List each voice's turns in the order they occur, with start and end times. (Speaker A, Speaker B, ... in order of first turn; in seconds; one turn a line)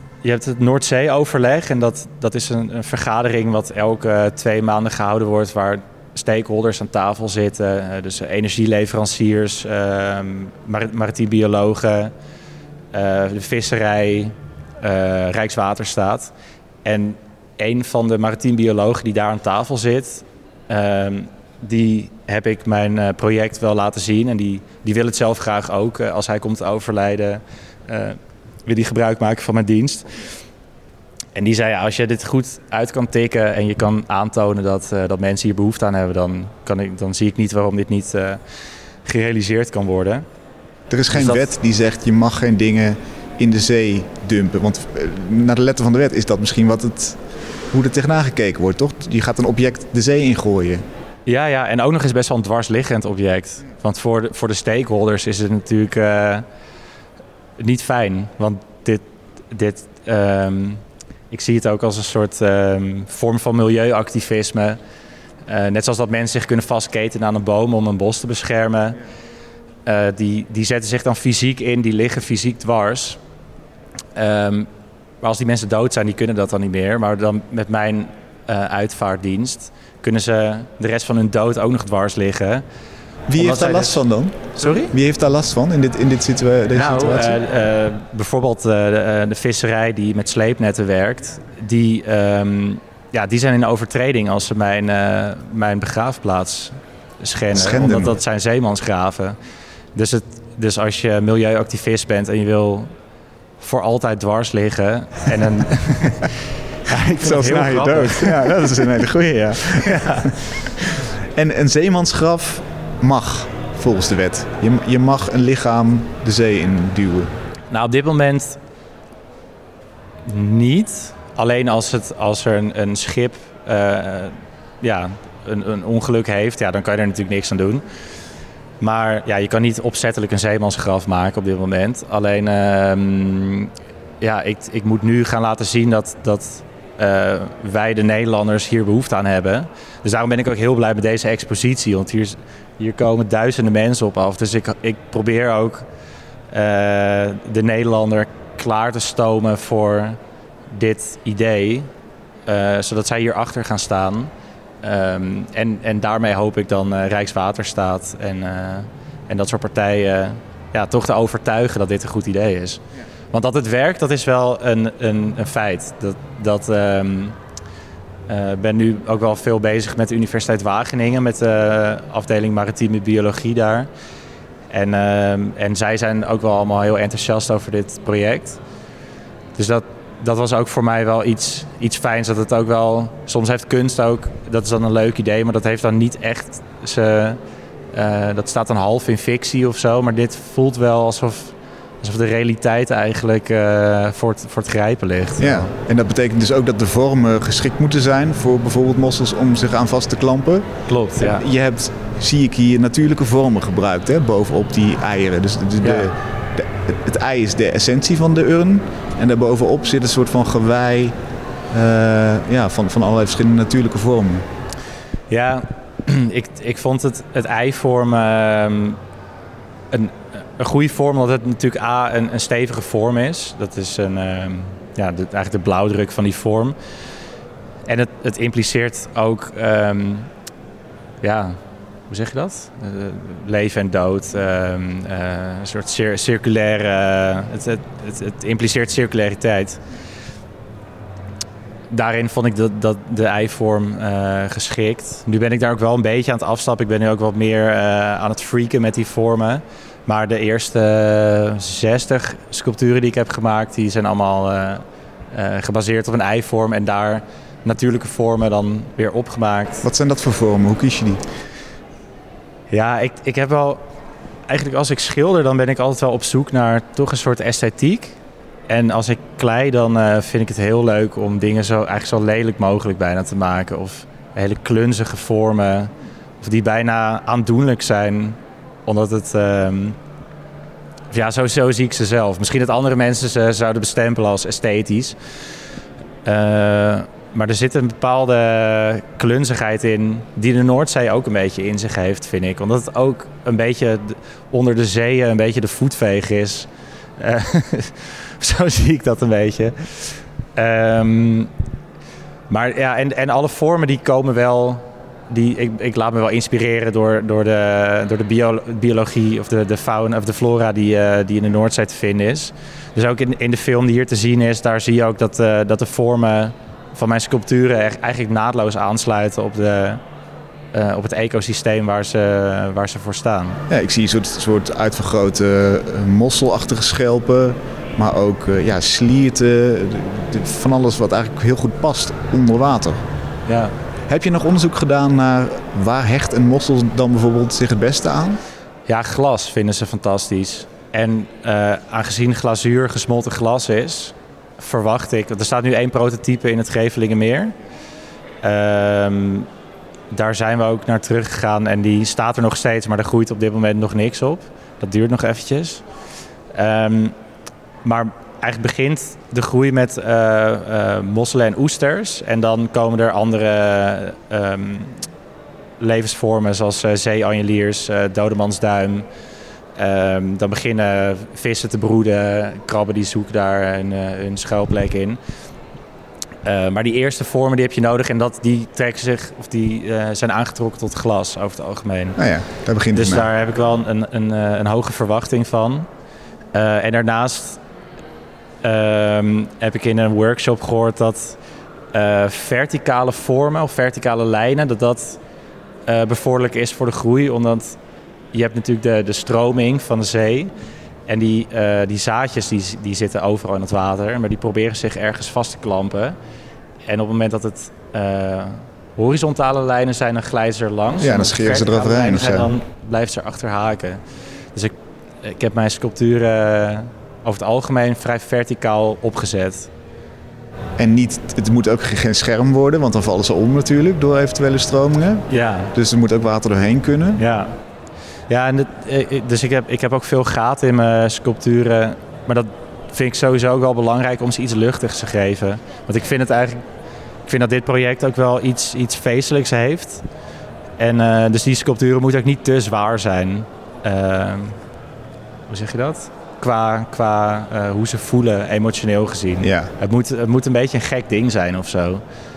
Speaker A: 0.2-12.1
Speaker A: 12.9-16.3
Speaker A: 16.9-30.2
Speaker A: 31.4-38.4
Speaker A: 39.0-40.3
Speaker B: 40.9-47.2
Speaker A: 41.1-41.5
Speaker B: 47.7-50.8
Speaker A: 51.3-56.5
Speaker A: 57.6-64.8
Speaker A: 65.5-69.0
Speaker A: 69.8-73.2
Speaker A: 74.2-74.7
Speaker A: 75.2-82.7
Speaker B: 83.3-87.4
Speaker A: 83.4-84.0
Speaker A: 84.5-84.9
Speaker A: 86.8-99.4
Speaker B: 97.5-98.1
Speaker A: 100.0-102.9
Speaker A: 103.6-106.3
Speaker A: 106.9-108.9
Speaker B: 106.9-117.3
Speaker A: 109.7-110.5
Speaker A: 117.7-118.6
Speaker A: 120.3-127.8
Speaker A: 128.8-145.9
Speaker A: 146.5-150.2
Speaker A: 150.7-151.9
Speaker A: 152.5-154.3
Speaker A: 154.8-167.4
Speaker A: 168.3-173.9
Speaker A: 174.7-178.6
Speaker A: 179.6-187.4
Speaker A: 187.9-195.7
Speaker B: 195.4-211.2
Speaker A: 200.9-201.4
Speaker A: 205.8-206.1
Speaker B: 211.7-214.5
Speaker A: 215.3-219.0
Speaker A: 219.9-226.8
Speaker A: 227.9-230.3
Speaker A: 231.2-239.8
Speaker A: 241.9-259.9
Speaker B: 259.8-261.2
Speaker A: 262.7-263.8
Speaker A: 264.5-268.2
Speaker A: 268.7-280.0
Speaker A: 281.1-285.2
Speaker A: 286.2-301.5
Speaker A: 302.5-320.0
Speaker A: 320.7-323.6
Speaker B: 323.7-333.0
Speaker A: 333.5-333.7
Speaker B: 334.1-338.4
Speaker A: 338.9-347.6
Speaker A: 348.4-349.5
Speaker A: 350.1-355.8
Speaker A: 356.5-357.1
Speaker A: 357.8-365.0
Speaker A: 365.8-369.1
Speaker A: 369.8-375.2
Speaker A: 376.4-382.2
Speaker B: 382.2-383.3
Speaker A: 382.9-385.9
Speaker A: 386.5-387.6
Speaker A: 388.6-391.4
Speaker A: 391.9-395.2
Speaker A: 395.9-397.8
Speaker A: 398.3-400.5
Speaker A: 401.1-406.2
Speaker A: 406.9-414.0
Speaker B: 411.0-412.5
Speaker A: 414.5-419.7
Speaker B: 420.8-427.2
Speaker A: 425.3-425.7
Speaker A: 427.2-427.6
Speaker A: 428.3-436.6
Speaker A: 437.3-440.0
Speaker A: 440.8-444.6
Speaker A: 445.5-452.0
Speaker B: 449.4-449.7